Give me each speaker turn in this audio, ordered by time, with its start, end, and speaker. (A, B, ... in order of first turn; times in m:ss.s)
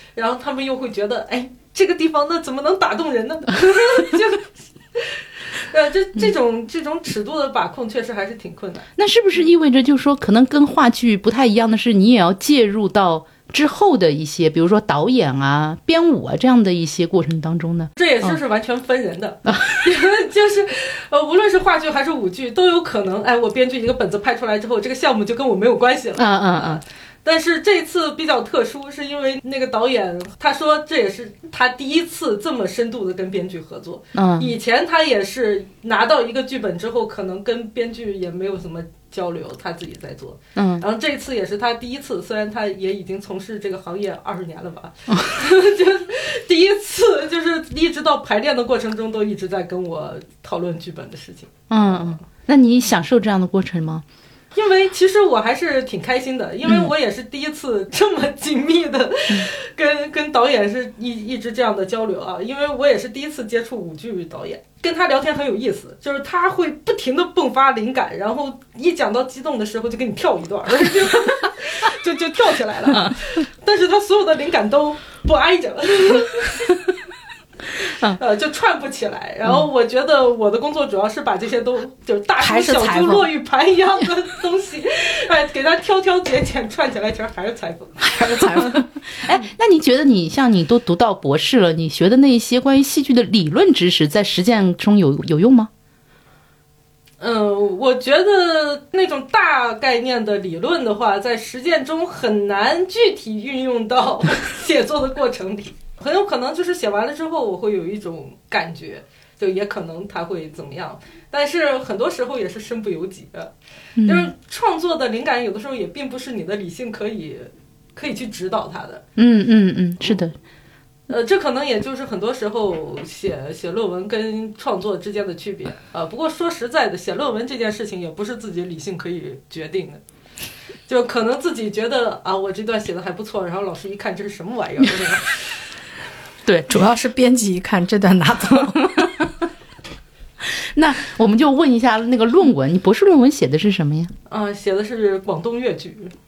0:00.2-0:08.9 A
0:09.0-0:18.3 B
0:18.0-0:52.2 A
0:19.5-0:19.8 B
0:26.2-0:26.8 B
0:34.1-0:34.5 B
0:40.6-0:40.8 B
0:51.7-0:54.0 B
0:54.5-1:16.7 A
1:12.9-1:13.2 B
1:18.1-1:28.8 A
1:22.4-1:23.3 C
1:28.1-1:28.8 C
1:28.4-1:35.7 B
1:37.2-1:53.5 A
1:54.0-1:54.3 B
1:54.0-1:59.0 A
1:59.2-2:00.3 B
2:01.1-2:10.0 A
2:10.9-2:15.3 A
2:16.7-2:18.9 C
2:18.6-2:19.1 B
2:20.5-2:24.1 B
2:24.3-2:26.1 A